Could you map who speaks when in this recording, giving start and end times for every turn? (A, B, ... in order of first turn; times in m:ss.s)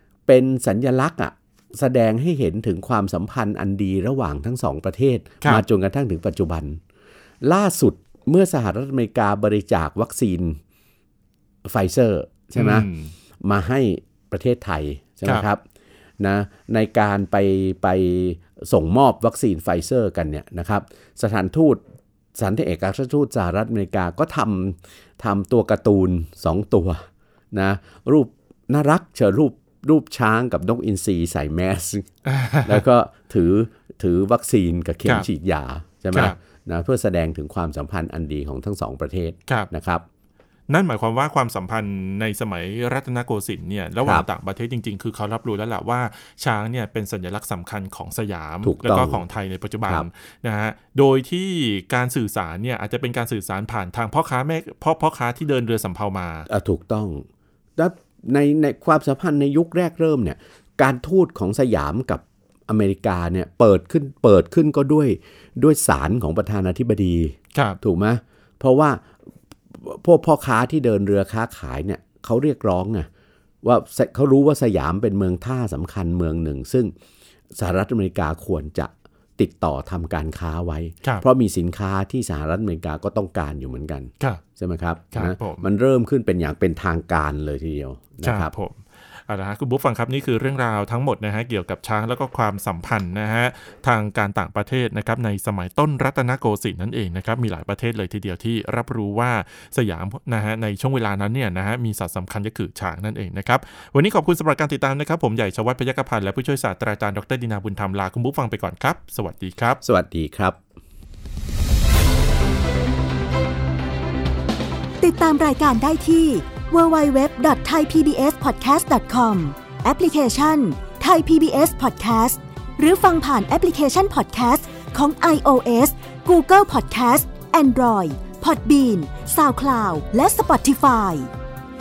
0:00.3-0:06.8 A
0:07.4-0:10.6 A
0:11.7-0:12.9 A
0:12.6-0:13.1 B
0:13.4-0:15.6 A
0:16.2-0:21.8 A
0:22.4-0:32.1 A
0:32.2-0:32.8 B
0:32.6-0:40.0 A
0:36.1-0:36.4 B
0:40.7-0:56.5 B
0:48.6-0:49.2 A
0:56.5-0:57.2 A
0:57.8-1:09.1 A
1:07.5-1:07.8 B
1:09.7-1:13.1 A
1:13.6-1:16.9 A
1:17.6-1:28.5 A
1:25.1-1:25.6 B
1:28.2-1:49.8 B
1:49.8-1:50.6 A
1:55.0-2:11.3 C